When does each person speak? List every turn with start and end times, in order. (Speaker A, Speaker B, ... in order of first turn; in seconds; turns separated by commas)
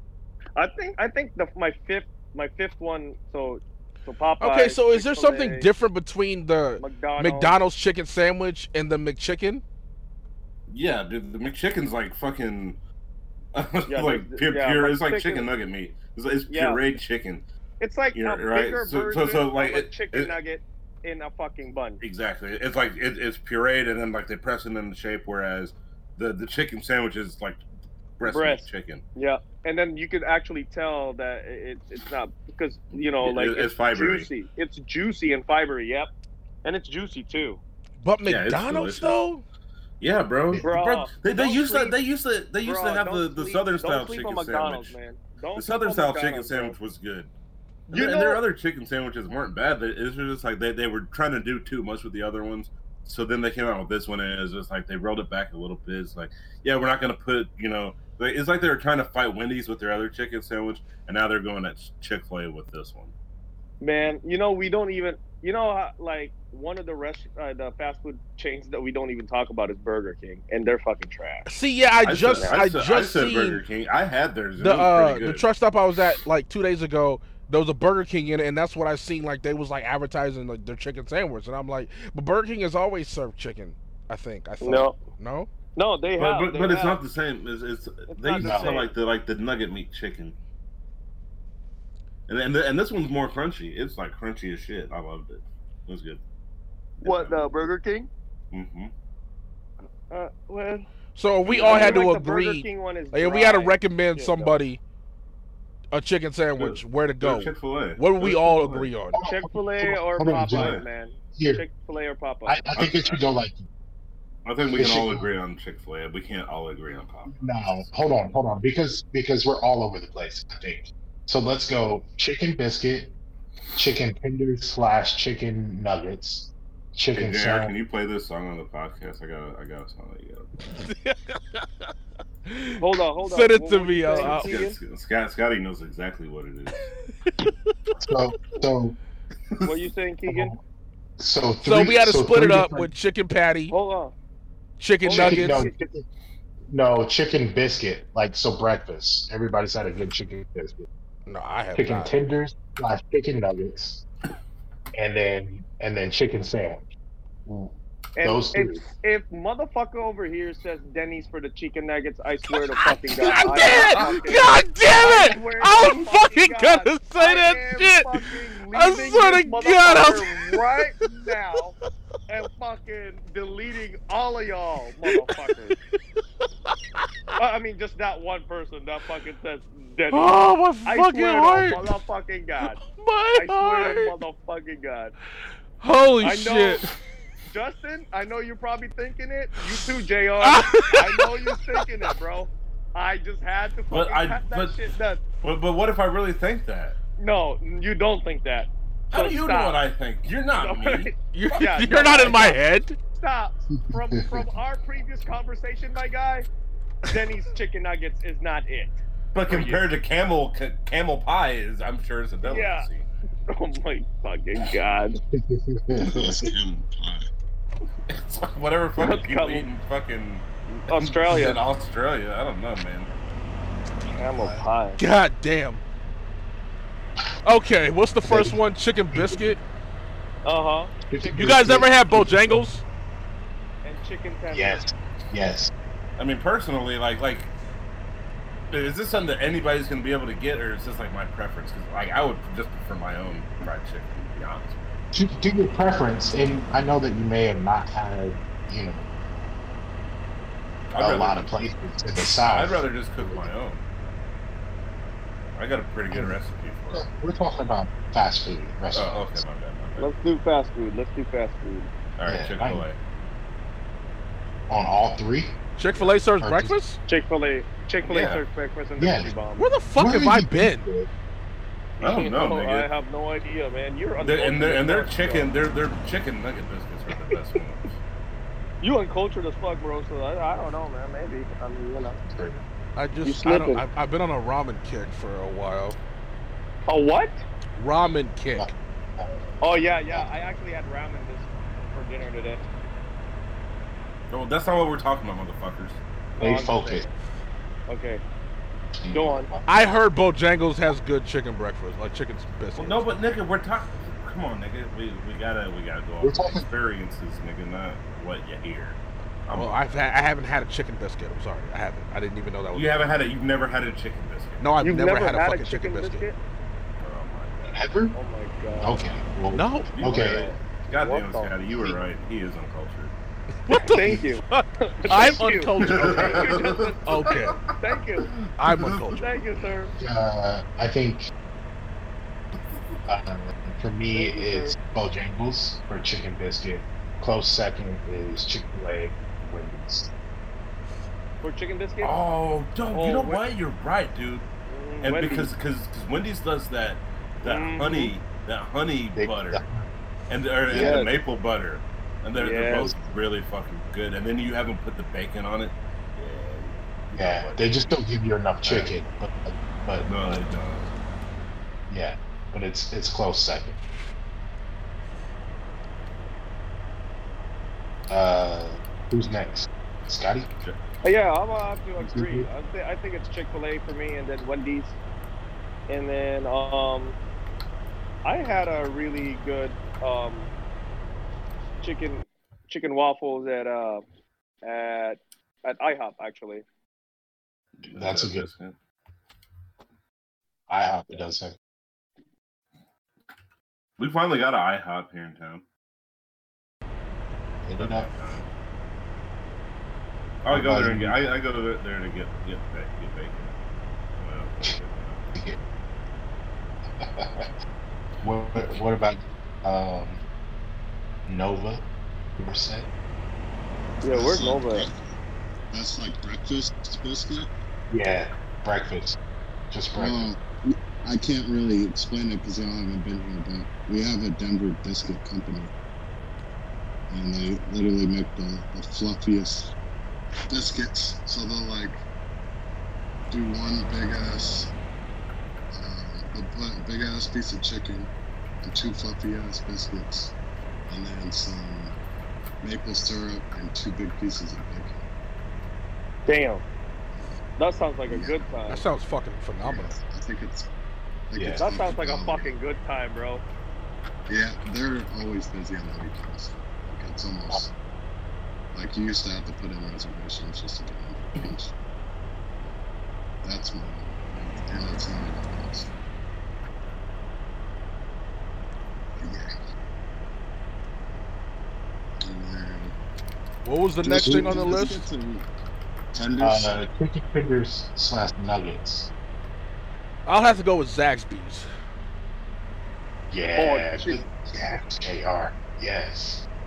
Speaker A: 0.6-5.7, Speaker B: 4.4-9.6, Speaker A: 6.8-7.6, Speaker C: 10.7-12.8, Speaker C: 13.5-17.5, Speaker A: 13.9-15.5, Speaker A: 16.5-16.8, Speaker A: 17.8-22.0, Speaker C: 18.1-20.4, Speaker C: 22.0-27.6, Speaker C: 28.2-29.0, Speaker A: 28.2-36.1, Speaker C: 33.2-34.3, Speaker A: 36.6-37.6, Speaker B: 38.0-39.4, Speaker C: 38.3-39.2, Speaker C: 40.0-45.0, Speaker A: 40.6-42.0, Speaker A: 42.6-46.8, Speaker C: 45.5-47.3, Speaker A: 47.9-48.4, Speaker C: 47.9-63.1, Speaker A: 63.8-71.5, Speaker B: 71.5-73.6, Speaker C: 72.0-75.5, Speaker B: 74.6-85.5, Speaker A: 84.6-85.0, Speaker A: 85.8-87.0, Speaker C: 86.2-90.4, Speaker A: 88.1-88.9, Speaker D: 88.4-88.8, Speaker C: 92.3-96.2, Speaker C: 97.0-97.7, Speaker A: 97.0-98.1, Speaker C: 98.5-98.9, Speaker A: 100.1-100.9, Speaker B: 101.2-104.8, Speaker C: 101.5-102.1, Speaker A: 101.5-104.6, Speaker B: 105.9-109.2, Speaker C: 106.6-108.9, Speaker D: 109.1-110.8, Speaker A: 109.2-113.1, Speaker C: 110.5-110.9, Speaker D: 111.3-111.6, Speaker D: 112.5-113.7, Speaker C: 112.8-113.2, Speaker C: 114.5-117.8, Speaker D: 114.7-115.3, Speaker D: 117.3-123.1, Speaker D: 123.8-127.7, Speaker C: 127.2-130.6, Speaker B: 130.8-131.7, Speaker B: 132.5-134.5, Speaker A: 132.8-134.8, Speaker C: 134.2-136.9, Speaker B: 137.2-137.5, Speaker D: 138.0-139.0, Speaker C: 139.5-139.8, Speaker A: 139.6-140.5, Speaker D: 140.3-140.6, Speaker D: 141.2-142.9, Speaker B: 141.6-143.7, Speaker A: 143.7-144.1, Speaker B: 144.8-145.7, Speaker A: 145.0-145.8, Speaker D: 145.1-146.1, Speaker D: 146.7-150.9, Speaker B: 151.3-152.2, Speaker D: 151.8-154.1, Speaker D: 154.9-156.9, Speaker D: 157.5-158.8, Speaker A: 158.2-171.8, Speaker B: 162.7-171.3, Speaker A: 172.3-175.8, Speaker B: 175.1-175.7, Speaker B: 176.7-177.1, Speaker A: 177.4-182.8, Speaker B: 180.1-181.9, Speaker B: 182.8-184.2, Speaker A: 183.3-185.1, Speaker B: 185.8-186.9, Speaker A: 186.2-186.8, Speaker A: 187.5-195.2, Speaker B: 190.4-191.8, Speaker C: 193.9-194.8, Speaker C: 195.4-197.0, Speaker A: 197.2-199.8, Speaker C: 199.1-201.1, Speaker A: 200.6-202.6, Speaker B: 201.3-203.0, Speaker A: 203.2-206.5, Speaker D: 203.8-204.5, Speaker A: 207.1-209.8, Speaker C: 209.3-213.1, Speaker A: 212.4-212.9, Speaker A: 213.5-215.2, Speaker D: 215.3-216.5, Speaker E: 216.0-217.3, Speaker C: 218.1-223.1, Speaker A: 219.0-219.7, Speaker A: 220.7-221.6, Speaker A: 224.1-225.0, Speaker D: 224.4-224.7, Speaker B: 225.0-225.8, Speaker B: 227.4-229.6, Speaker D: 228.2-228.6, Speaker D: 229.1-229.5, Speaker A: 230.4-230.9, Speaker D: 231.1-232.7, Speaker B: 231.3-232.8, Speaker A: 233.8-234.8, Speaker D: 234.5-235.7, Speaker C: 236.2-237.5, Speaker C: 238.7-244.8, Speaker D: 245.1-249.1, Speaker C: 250.9-251.5, Speaker D: 250.9-253.5, Speaker C: 252.5-253.8, Speaker C: 255.6-257.1, Speaker D: 256.1-256.4, Speaker D: 256.9-259.4, Speaker C: 258.9-260.1, Speaker A: 260.0-261.9, Speaker C: 262.2-263.0, Speaker D: 262.3-262.9, Speaker D: 264.7-266.8, Speaker B: 265.8-267.0, Speaker A: 267.1-269.7, Speaker C: 268.1-268.4, Speaker D: 269.0-269.4, Speaker B: 269.6-270.9, Speaker D: 270.0-271.1, Speaker A: 272.0-275.5, Speaker C: 272.0-272.9, Speaker C: 274.2-278.0, Speaker A: 278.8-282.2, Speaker D: 282.3-282.6, Speaker B: 283.0-286.0, Speaker A: 283.2-283.8, Speaker A: 286.9-287.4, Speaker B: 287.8-288.7, Speaker D: 288.6-290.3, Speaker A: 289.6-292.6, Speaker C: 294.3-296.0, Speaker A: 296.4-297.1, Speaker D: 296.4-297.1, Speaker A: 297.9-298.2, Speaker D: 298.9-299.7, Speaker A: 299.1-299.5, Speaker B: 299.7-303.1, Speaker C: 302.8-309.8, Speaker D: 306.2-306.7, Speaker B: 309.5-313.1, Speaker C: 312.7-314.6, Speaker B: 314.6-316.3, Speaker A: 314.8-316.4, Speaker C: 317.0-317.8, Speaker D: 317.6-318.1, Speaker A: 318.1-319.0, Speaker D: 318.8-320.5, Speaker B: 319.5-319.9, Speaker C: 319.9-323.1, Speaker A: 320.1-321.5, Speaker D: 321.7-322.0, Speaker B: 323.7-326.3, Speaker A: 323.8-327.1, Speaker D: 323.9-324.3, Speaker D: 325.2-326.6, Speaker C: 325.8-329.7, Speaker B: 327.0-327.6, Speaker A: 327.8-328.3, Speaker B: 328.6-329.3, Speaker A: 329.1-329.9, Speaker D: 330.0-331.3, Speaker D: 333.1-340.1, Speaker A: 334.1-334.8, Speaker A: 341.4-342.2, Speaker C: 342.0-344.5, Speaker A: 342.9-343.4, Speaker A: 344.7-345.5, Speaker C: 345.0-349.6, Speaker A: 347.4-348.1, Speaker D: 349.2-349.9, Speaker C: 350.3-357.9, Speaker D: 350.7-351.1, Speaker A: 350.7-351.1, Speaker A: 352.4-352.9, Speaker D: 357.1-360.4, Speaker C: 358.6-358.9, Speaker C: 360.1-361.0, Speaker D: 361.9-363.8, Speaker D: 368.1-370.5, Speaker A: 371.0-375.0, Speaker D: 372.0-372.5, Speaker A: 375.9-377.2, Speaker A: 378.2-380.5, Speaker A: 381.8-384.0, Speaker A: 384.6-386.6, Speaker C: 387.8-388.8, Speaker D: 387.9-388.5, Speaker D: 390.7-391.6, Speaker C: 394.0-395.6, Speaker D: 397.6-398.1, Speaker C: 397.8-398.5, Speaker C: 400.4-403.6, Speaker D: 400.5-401.2, Speaker C: 404.2-405.3, Speaker D: 407.0-407.5, Speaker D: 408.2-410.2, Speaker D: 411.2-411.9, Speaker D: 412.4-412.9, Speaker A: 414.0-414.9, Speaker E: 414.1-415.1, Speaker E: 415.7-417.5, Speaker D: 417.9-419.2, Speaker D: 419.7-420.3, Speaker E: 419.9-425.7, Speaker E: 427.1-429.8, Speaker E: 430.5-432.0, Speaker E: 433.3-434.7, Speaker E: 435.7-438.1, Speaker E: 438.6-440.4, Speaker E: 440.9-441.9, Speaker E: 442.6-445.0, Speaker A: 446.3-446.6, Speaker A: 447.6-448.9, Speaker E: 448.1-448.4, Speaker B: 448.7-450.0, Speaker E: 449.6-450.7, Speaker E: 451.3-452.5, Speaker D: 451.3-451.7, Speaker A: 451.6-453.4, Speaker E: 454.3-457.7, Speaker E: 458.7-461.8, Speaker E: 463.4-466.0, Speaker E: 469.2-469.5, Speaker E: 472.2-472.9, Speaker B: 473.6-475.1, Speaker E: 474.0-475.5, Speaker D: 474.1-474.7, Speaker E: 476.1-476.8, Speaker D: 476.4-479.1, Speaker B: 480.3-481.7, Speaker D: 483.3-486.5, Speaker A: 483.6-484.2